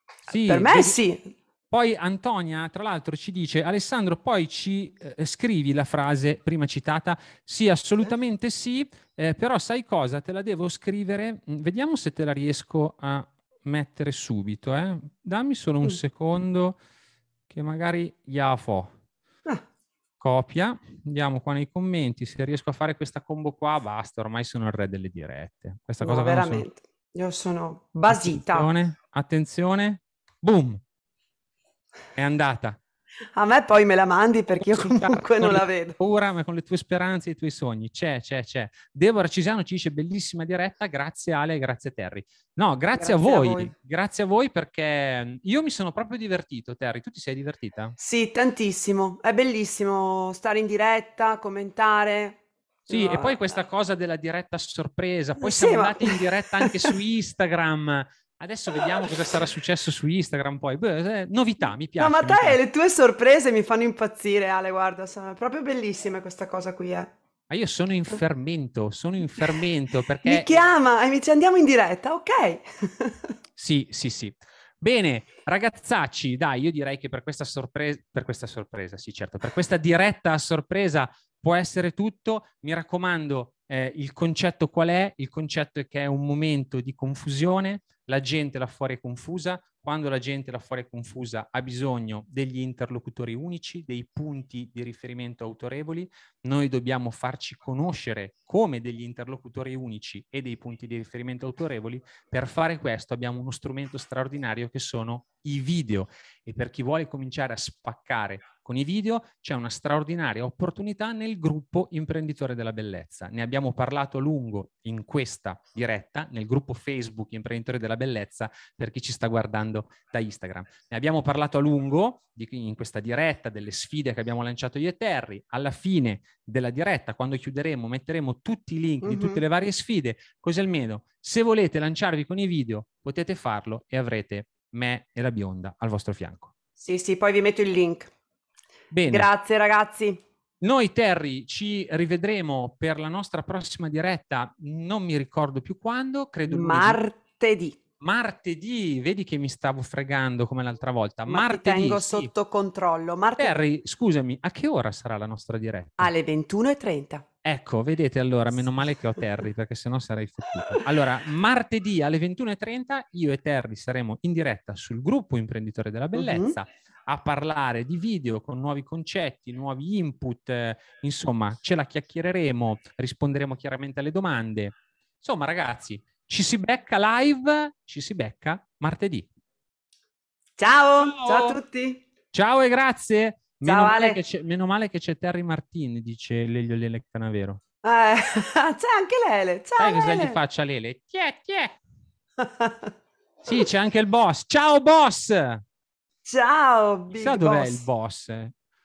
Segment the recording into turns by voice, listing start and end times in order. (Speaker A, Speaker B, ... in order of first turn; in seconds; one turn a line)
Speaker A: 0.3-1.0
Speaker B: 0.3-1.3
Speaker A: 1.7-16.8
Speaker A: 17.5-18.9
Speaker A: 20.2-26.6
Speaker B: 26.0-28.7
Speaker A: 28.1-30.8
Speaker A: 32.1-32.8
Speaker B: 33.4-36.0
Speaker A: 34.6-48.0
Speaker B: 42.9-43.7
Speaker B: 48.0-53.5
Speaker A: 52.9-62.6
Speaker B: 55.4-56.9
Speaker B: 62.0-67.1
Speaker A: 67.5-70.6
Speaker B: 70.2-73.3
Speaker A: 73.6-136.5
Speaker B: 129.0-129.4
Speaker B: 136.8-138.1
Speaker A: 138.9-139.3
Speaker B: 139.1-140.2
Speaker A: 140.6-147.0
Speaker B: 146.5-147.8
Speaker A: 148.0-152.3
Speaker B: 151.3-153.6
Speaker A: 153.4-156.1
Speaker B: 156.0-157.2
Speaker A: 157.4-179.3
Speaker B: 166.1-166.6
Speaker B: 180.6-182.0
Speaker A: 181.0-181.6
Speaker A: 182.3-187.6
Speaker B: 183.6-184.2
Speaker B: 187.8-190.4
Speaker A: 189.8-191.8
Speaker B: 192.4-192.9
Speaker A: 193.4-195.6
Speaker B: 196.2-197.8
Speaker A: 197.1-198.5